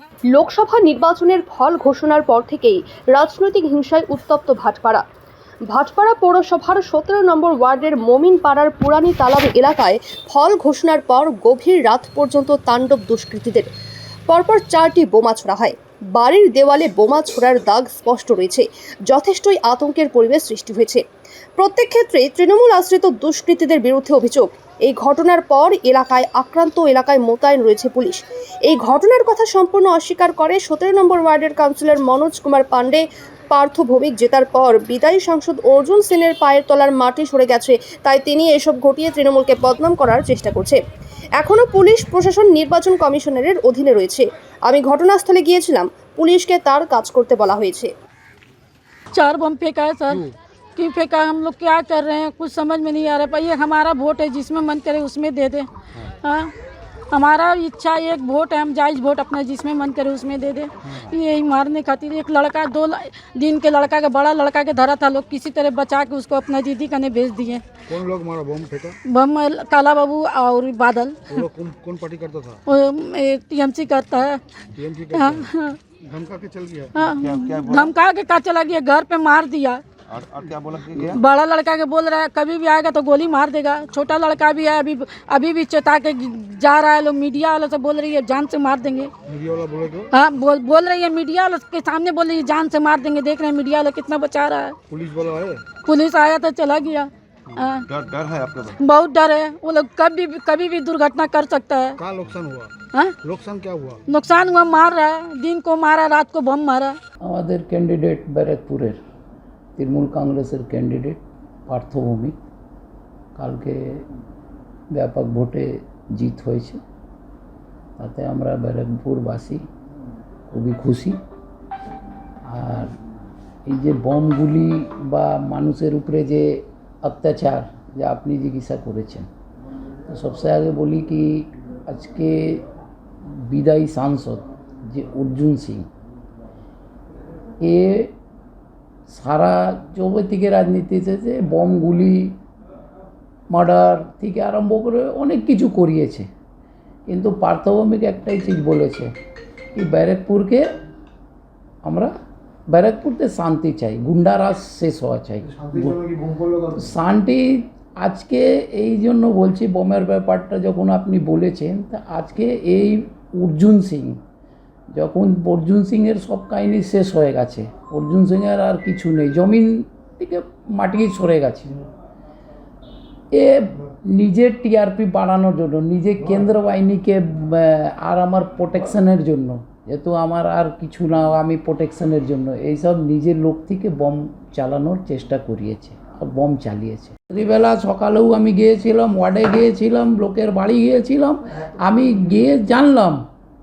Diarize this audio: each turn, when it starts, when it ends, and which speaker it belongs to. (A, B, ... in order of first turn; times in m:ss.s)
0:00.3-0:05.0 A
0:05.7-0:13.7 A
0:14.3-0:21.0 A
0:21.6-0:40.8 A
0:41.4-0:47.9 A
0:49.1-0:50.2 B
0:50.8-0:55.7 B
0:56.2-0:56.5 B
0:57.1-1:07.6 B
1:07.9-1:09.0 C
1:09.0-1:11.4 B
1:11.3-1:12.6 C
1:12.6-1:14.4 B
1:14.8-1:15.4 C
1:15.1-1:15.8 B
1:16.0-1:16.9 C
1:16.9-1:19.8 B
1:17.1-1:17.9 D
1:20.1-1:21.2 D
1:21.0-1:29.1 B
1:29.3-1:30.1 C
1:30.1-1:34.8 B
1:34.9-1:35.6 C
1:35.8-1:37.9 B
1:37.9-1:38.8 D
1:38.8-1:42.0 B
1:42.0-1:42.7 C
1:43.2-1:44.0 C
1:44.1-1:47.0 B
1:47.2-1:49.0 E
1:49.8-1:52.4 E
1:53.4-1:54.0 E
1:54.9-1:56.8 E
1:58.0-1:59.6 E
2:00.5-2:01.2 E
2:02.4-2:02.9 E
2:03.7-2:09.3 E
2:10.1-2:12.6 E
2:13.3-2:15.8 E
2:17.6-2:18.1 E
2:19.1-2:22.3 E
2:23.5-2:26.3 E
2:27.1-2:29.1 E
2:29.7-2:30.6 E
2:31.8-2:32.1 E
2:32.7-2:36.0 E
2:35.4-2:36.8 C
2:36.8-2:44.2 E
2:44.9-2:51.7 E
2:53.3-3:13.2 E